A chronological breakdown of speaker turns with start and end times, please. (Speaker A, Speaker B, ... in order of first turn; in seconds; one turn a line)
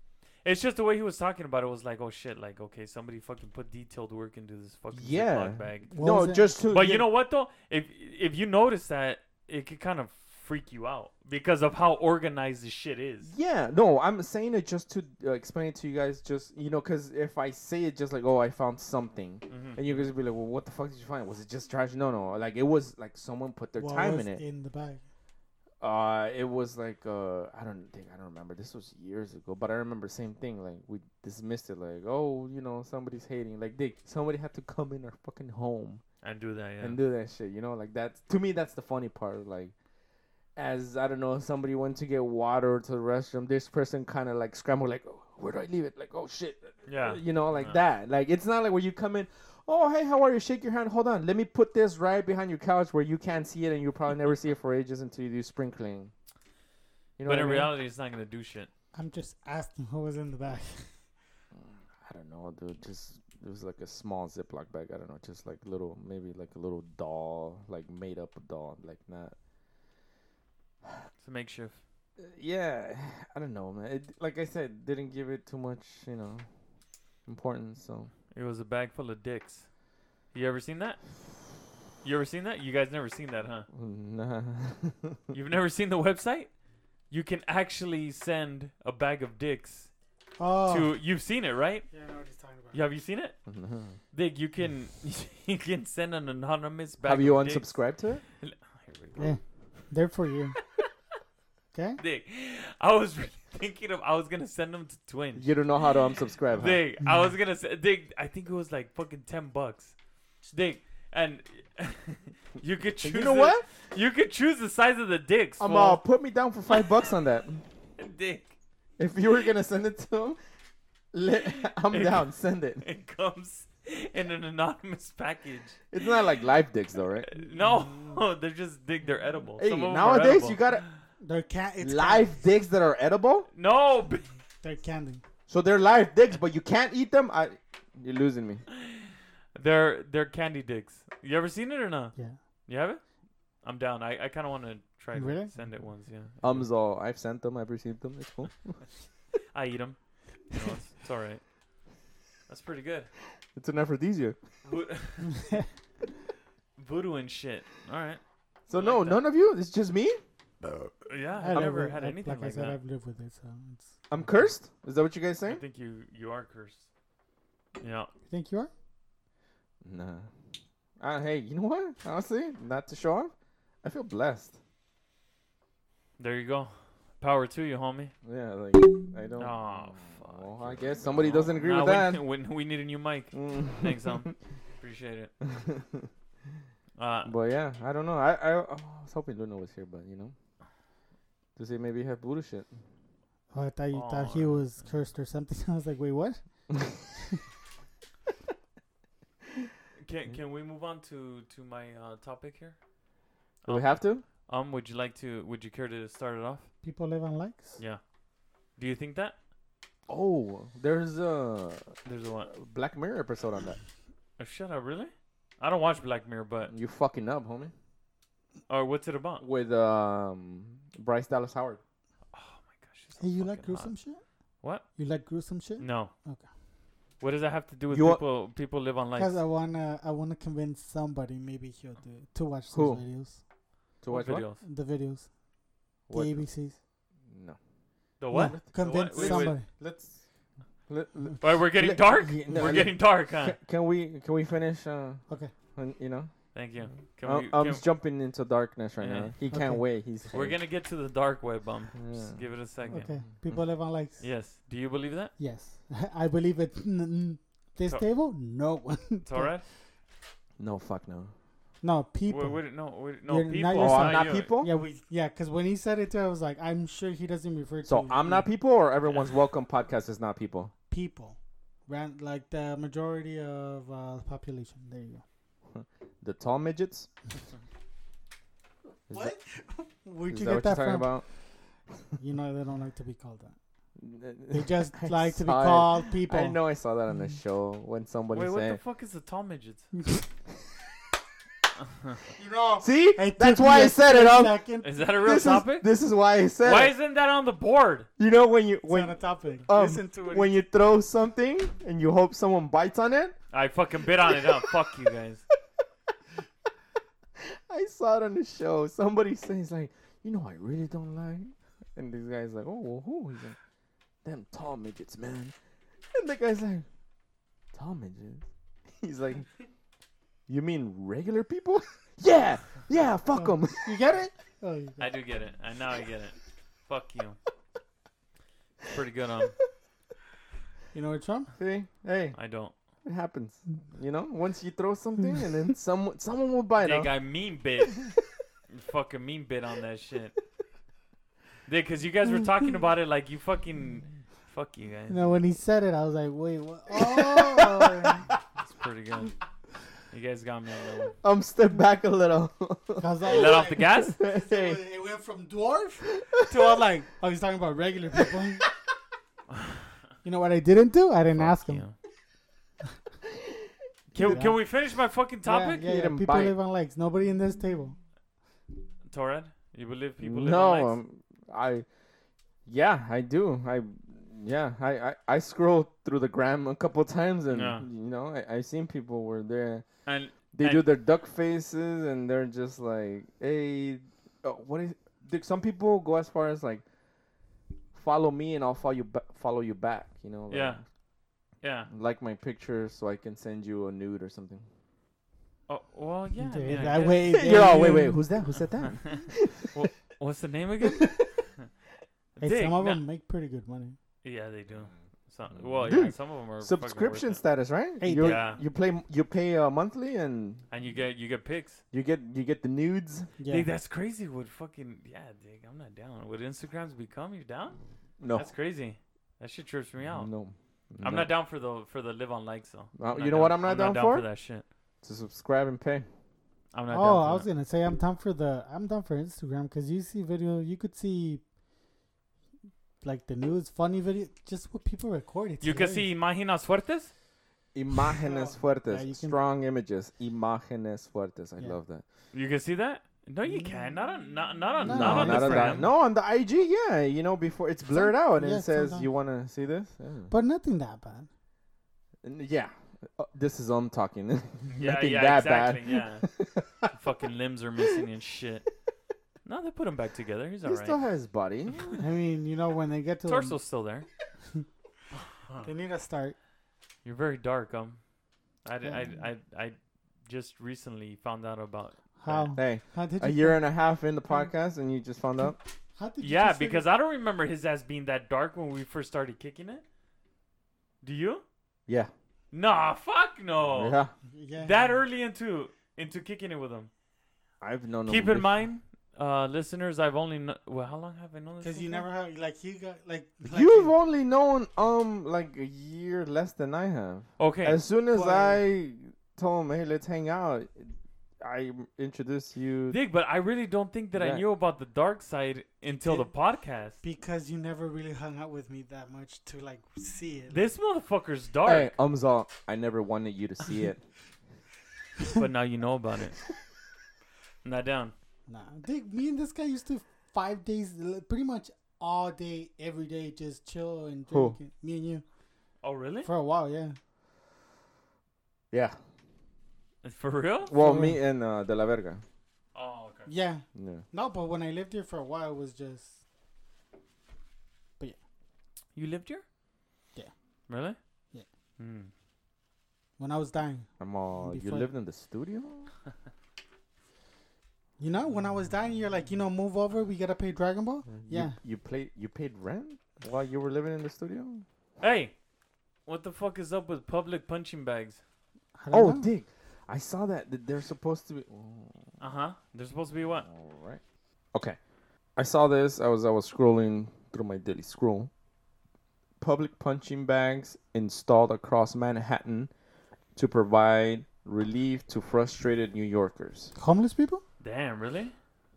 Speaker A: 0.4-6.0
Speaker B: 4.9-7.1
Speaker C: 5.9-6.5
Speaker A: 6.7-13.3
Speaker B: 13.2-24.4
Speaker A: 19.5-20.1
Speaker C: 23.8-25.0
Speaker B: 25.8-36.0
Speaker A: 36.2-37.0
Speaker B: 36.8-39.7
Speaker B: 40.6-56.1
Speaker A: 46.9-47.8
Speaker B: 57.2-57.7
Speaker A: 57.3-58.7
Speaker C: 58.9-60.9
Speaker B: 61.5-69.3
Speaker A: 71.2-71.8
Speaker B: 72.2-76.5
Speaker B: 77.3-78.1
Speaker A: 78.3-79.7
Speaker A: 80.3-81.0
Speaker A: 82.0-83.7
Speaker B: 83.7-85.2
Speaker A: 85.3-86.5
Speaker A: 87.1-89.9
Speaker C: 90.4-90.9
Speaker A: 90.7-91.9
Speaker C: 91.9-92.8
Speaker A: 92.7-93.4
Speaker B: 93.5-94.0
Speaker A: 94.1-97.7
Speaker B: 97.0-98.2
Speaker A: 98.4-99.3
Speaker C: 99.2-100.6
Speaker C: 101.7-102.0
Speaker A: 102.0-105.9
Speaker B: 105.4-106.8
Speaker A: 106.5-109.9
Speaker C: 107.0-107.3
Speaker A: 110.5-116.0
Speaker B: 113.0-113.7
Speaker B: 115.6-117.6
Speaker A: 116.7-117.0
Speaker A: 118.0-118.5
Speaker B: 119.0-120.4
Speaker B: 121.1-122.8
Speaker A: 121.9-126.2
Speaker B: 125.9-127.3
Speaker A: 127.2-130.6
Speaker C: 127.6-128.1
Speaker B: 129.6-130.8
Speaker C: 131.2-132.4
Speaker B: 131.8-133.5
Speaker A: 133.6-134.3
Speaker C: 134.6-135.2
Speaker B: 135.5-138.7
Speaker A: 138.8-143.0
Speaker A: 143.6-146.7
Speaker C: 145.1-145.5
Speaker B: 146.4-148.8
Speaker A: 149.5-150.0
Speaker A: 150.5-151.4
Speaker A: 152.5-153.1
Speaker B: 153.6-154.4
Speaker A: 154.7-155.4
Speaker C: 155.3-155.7
Speaker A: 156.8-159.2
Speaker B: 158.7-160.2
Speaker A: 161.1-162.8
Speaker C: 161.4-164.0
Speaker B: 164.1-165.6
Speaker A: 165.5-166.9
Speaker A: 167.8-168.1
Speaker C: 168.3-168.7
Speaker B: 169.8-170.3
Speaker B: 171.0-174.6
Speaker A: 176.2-178.1
Speaker B: 178.2-182.2
Speaker A: 179.4-185.3
Speaker B: 183.3-184.3
Speaker B: 185.4-186.1
Speaker A: 187.0-187.3
Speaker B: 187.2-190.3
Speaker B: 191.6-192.7
Speaker C: 193.5-196.4
Speaker A: 193.9-194.7
Speaker A: 200.0-202.8
Speaker A: 203.6-206.7
Speaker B: 203.7-204.2
Speaker C: 206.8-207.8
Speaker A: 208.8-209.3
Speaker B: 210.1-212.0
Speaker A: 212.1-212.5
Speaker B: 212.5-213.8
Speaker A: 214.4-216.7
Speaker B: 216.7-217.7
Speaker A: 218.7-219.4
Speaker B: 219.4-221.8
Speaker A: 222.3-223.9
Speaker C: 223.2-224.2
Speaker C: 224.9-226.4
Speaker A: 225.8-226.1
Speaker A: 227.2-229.4
Speaker B: 227.9-228.2
Speaker C: 229.2-233.4
Speaker B: 232.7-233.0
Speaker B: 234.0-234.5
Speaker A: 234.1-234.6
Speaker C: 234.6-235.3
Speaker B: 236.1-236.4
Speaker C: 236.1-236.8
Speaker B: 237.3-237.6
Speaker A: 238.2-239.6
Speaker C: 238.3-239.7
Speaker B: 238.3-240.2
Speaker B: 240.9-245.2
Speaker A: 241.4-243.6
Speaker B: 245.8-246.3
Speaker A: 246.5-247.8
Speaker B: 247.2-250.6
Speaker A: 249.0-249.3
Speaker C: 249.5-249.9
Speaker A: 250.3-253.1
Speaker B: 251.9-253.1
Speaker C: 252.9-254.2
Speaker A: 254.2-255.3
Speaker C: 255.4-259.5
Speaker A: 259.2-259.6
Speaker B: 260.6-261.3
Speaker C: 261.8-262.6
Speaker A: 262.3-264.5
Speaker C: 263.3-268.5
Speaker B: 263.8-264.7
Speaker B: 267.9-270.7
Speaker C: 270.9-275.2
Speaker B: 275.7-277.1
Speaker B: 279.1-279.4
Speaker C: 279.1-281.1
Speaker B: 280.3-281.3
Speaker C: 282.2-283.6
Speaker B: 284.0-288.8
Speaker C: 284.5-286.6
Speaker A: 288.3-289.9
Speaker C: 292.4-294.9
Speaker B: 292.8-294.6
Speaker A: 294.8-295.9
Speaker B: 295.2-296.9
Speaker A: 296.6-298.1
Speaker B: 298.2-299.1
Speaker C: 298.9-300.6
Speaker B: 299.7-303.4
Speaker A: 303.5-305.4
Speaker B: 304.2-304.7
Speaker B: 307.4-313.6
Speaker B: 314.2-315.6
Speaker B: 316.1-316.9
Speaker B: 317.7-318.4
Speaker B: 319.0-319.5
Speaker B: 320.5-324.0
Speaker C: 323.4-325.1
Speaker A: 325.0-326.4
Speaker A: 326.9-327.4
Speaker A: 328.9-329.6
Speaker C: 330.9-331.5
Speaker B: 331.6-332.4
Speaker A: 332.4-332.7
Speaker B: 333.1-337.1
Speaker A: 336.8-338.1
Speaker A: 338.7-340.4
Speaker A: 341.7-345.3
Speaker C: 345.1-348.3
Speaker B: 346.9-348.2
Speaker A: 348.6-349.4
Speaker A: 350.1-351.2
Speaker B: 351.2-354.8
Speaker C: 353.0-358.7
Speaker A: 353.3-354.2
Speaker B: 356.1-356.6
Speaker C: 360.2-361.8
Speaker A: 361.4-361.9
Speaker B: 364.1-364.5
Speaker A: 364.1-365.9
Speaker C: 364.2-364.6
Speaker C: 365.4-368.0
Speaker B: 365.9-366.6
Speaker A: 369.1-371.0
Speaker B: 370.2-371.9
Speaker B: 372.7-379.9
Speaker A: 377.5-377.9
Speaker A: 380.1-380.8
Speaker B: 380.5-386.8
Speaker B: 387.9-390.8
Speaker A: 390.5-390.8
Speaker A: 391.6-391.9
Speaker B: 391.9-394.7
Speaker A: 395.7-397.4
Speaker C: 396.4-398.2
Speaker B: 397.2-399.9
Speaker A: 398.8-401.3
Speaker B: 400.9-401.3
Speaker A: 402.4-403.0
Speaker C: 402.4-404.0
Speaker A: 404.2-407.4
Speaker B: 405.8-410.6
Speaker C: 408.0-408.4
Speaker A: 408.2-408.6
Speaker A: 410.7-411.8
Speaker B: 411.9-413.3
Speaker C: 413.4-413.7
Speaker A: 413.5-417.8
Speaker B: 418.2-418.5
Speaker A: 418.4-420.3
Speaker B: 420.1-421.3
Speaker A: 421.0-424.6
Speaker B: 423.0-424.3
Speaker B: 425.0-426.1
Speaker A: 426.7-427.5
Speaker C: 426.9-431.4
Speaker C: 433.0-436.1
Speaker A: 435.6-437.1
Speaker B: 437.7-442.0
Speaker C: 438.1-439.4
Speaker A: 442.3-445.9
Speaker C: 443.5-443.9
Speaker C: 444.8-445.9
Speaker B: 444.9-450.3
Speaker C: 447.9-449.1
Speaker C: 450.3-451.3
Speaker B: 452.2-456.9
Speaker A: 454.7-456.3
Speaker A: 456.9-458.7
Speaker A: 459.4-461.0
Speaker B: 460.6-461.9
Speaker A: 461.7-462.0
Speaker C: 462.0-463.6
Speaker A: 463.3-464.1
Speaker C: 465.6-466.4
Speaker A: 467.1-468.0
Speaker A: 468.6-469.8
Speaker C: 468.8-469.1
Speaker A: 470.3-472.5
Speaker C: 472.2-473.6
Speaker B: 472.6-475.6
Speaker C: 476.0-476.8
Speaker A: 476.2-479.8
Speaker A: 481.0-481.4
Speaker A: 482.5-484.0
Speaker B: 483.6-484.1
Speaker C: 484.3-485.0
Speaker A: 484.6-486.9
Speaker B: 487.6-488.5
Speaker A: 488.1-492.0
Speaker C: 491.6-493.9
Speaker B: 493.5-503.0
Speaker A: 497.4-497.8
Speaker C: 498.1-498.6
Speaker A: 502.9-507.0
Speaker B: 504.1-504.4
Speaker C: 506.0-506.3
Speaker C: 507.0-510.6
Speaker A: 510.5-511.9
Speaker B: 511.6-514.0
Speaker A: 515.3-516.4
Speaker A: 517.6-518.1
Speaker C: 518.5-525.2
Speaker B: 524.3-524.6
Speaker A: 525.8-526.3
Speaker C: 526.2-527.0
Speaker B: 528.7-529.0
Speaker A: 530.0-530.7
Speaker B: 530.7-532.2
Speaker C: 530.8-531.2
Speaker A: 532.8-533.3
Speaker C: 533.3-536.2
Speaker B: 533.8-534.0
Speaker A: 539.0-539.4
Speaker A: 540.7-541.0
Speaker A: 541.8-542.1
Speaker C: 543.2-543.9
Speaker B: 544.0-545.9
Speaker C: 544.4-544.9
Speaker C: 548.0-551.6
Speaker B: 551.1-554.6
Speaker A: 555.0-555.3
Speaker A: 556.1-558.2
Speaker C: 558.8-559.3
Speaker B: 558.9-562.0
Speaker A: 562.2-563.5
Speaker B: 563.5-564.0
Speaker B: 565.4-568.3
Speaker B: 569.4-572.7
Speaker B: 573.4-576.7
Speaker C: 576.8-577.4
Speaker A: 577.6-578.3